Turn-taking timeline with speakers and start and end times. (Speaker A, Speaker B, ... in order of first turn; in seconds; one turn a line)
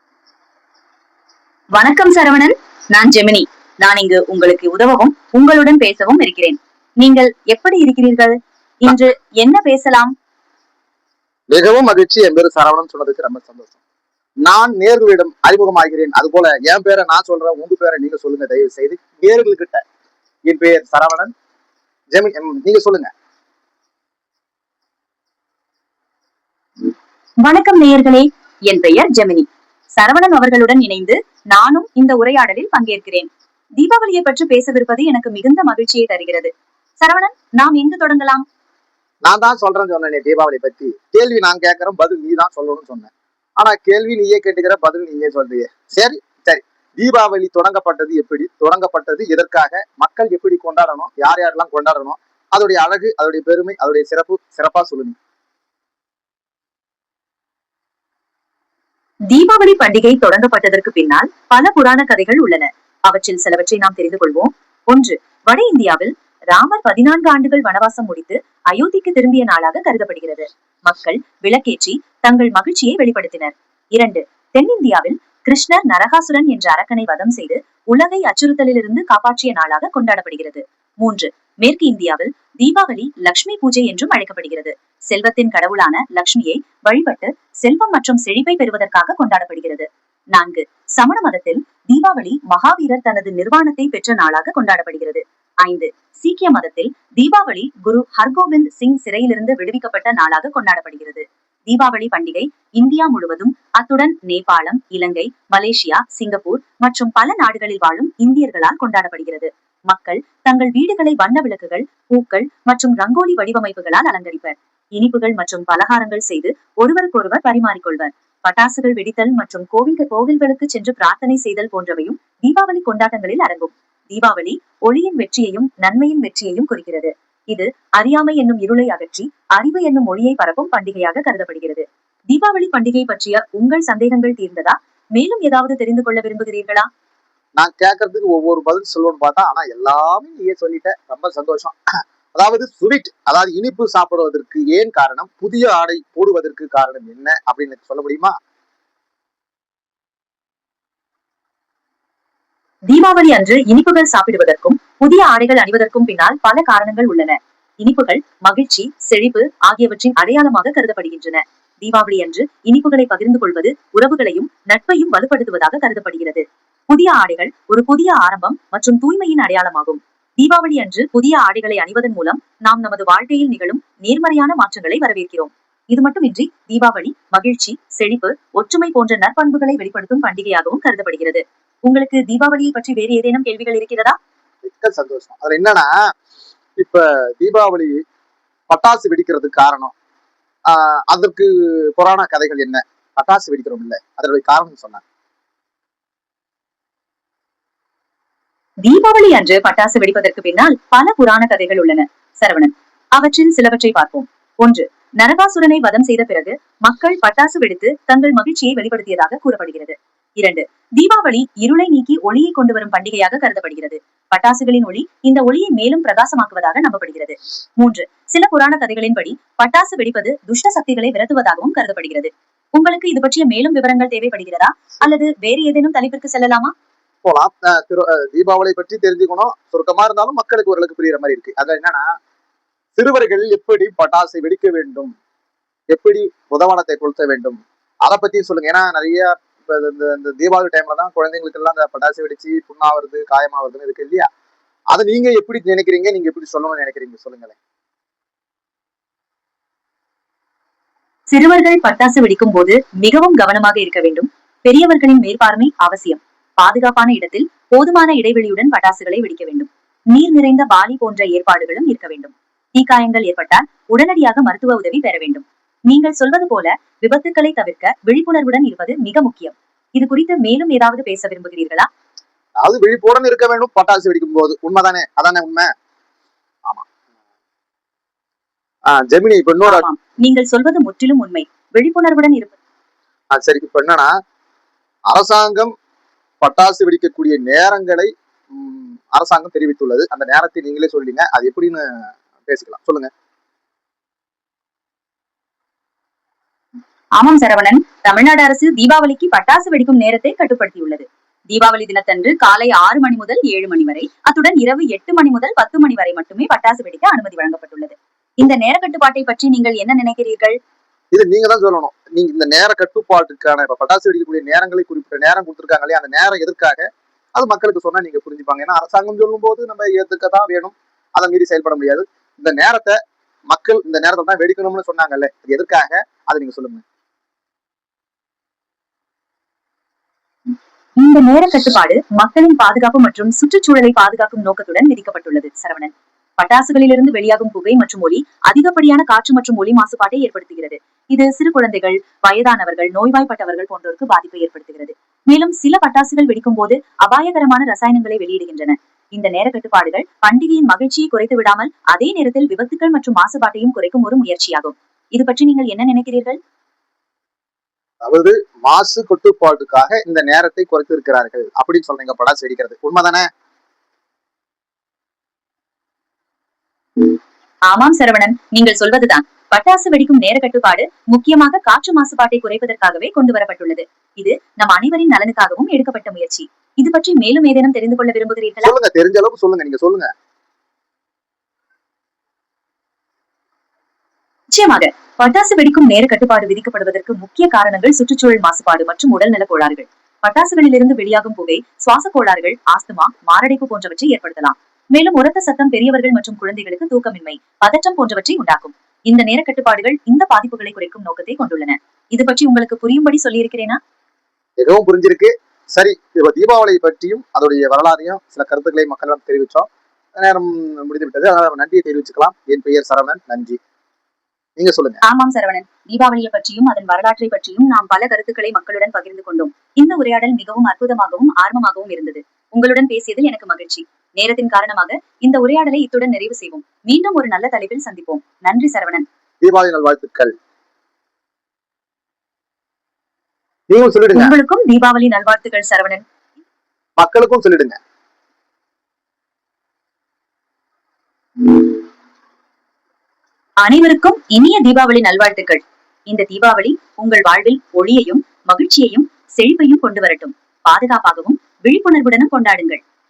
Speaker A: 1.7-10.1
Speaker B: 11.5-13.8
Speaker B: 14.4-19.8
Speaker B: 20.5-21.3
Speaker B: 22.1-23.1
Speaker A: 26.8-38.4
Speaker B: 39.2-55.2
Speaker A: 59.3-136.9
Speaker B: 137.6-141.8
Speaker B: 142.3-148.3
Speaker A: 152.9-184.2
Speaker B: 184.6-186.1
Speaker B: 186.8-188.0
Speaker B: 188.7-189.9
Speaker B: 190.7-195.0
Speaker A: 198.8-226.7
Speaker B: 227.2-232.2
Speaker B: 232.9-235.1
Speaker B: 235.9-244.3
Speaker B: 244.9-247.6
Speaker A: 251.3-271.9
Speaker B: 272.6-275.7
Speaker B: 278.9-279.9
Speaker A: 279.6-282.6
Speaker B: 283.3-284.1
Speaker B: 285.1-285.7
Speaker B: 286.4-293.1
Speaker A: 297.1-310.6
Speaker B: 311.1-326.8
Speaker A: 331.0-356.4
Speaker B: 358.0-363.3
Speaker A: 367.7-378.7
Speaker B: 378.6-380.1
Speaker A: 384.5-403.8
Speaker B: 404.6-413.6
Speaker B: 414.6-415.0
Speaker A: 415.0-429.1
Speaker B: 429.4-430.3
Speaker B: 433.7-434.3
Speaker A: 434.1-436.0
Speaker B: 437.0-437.8
Speaker A: 443.6-452.8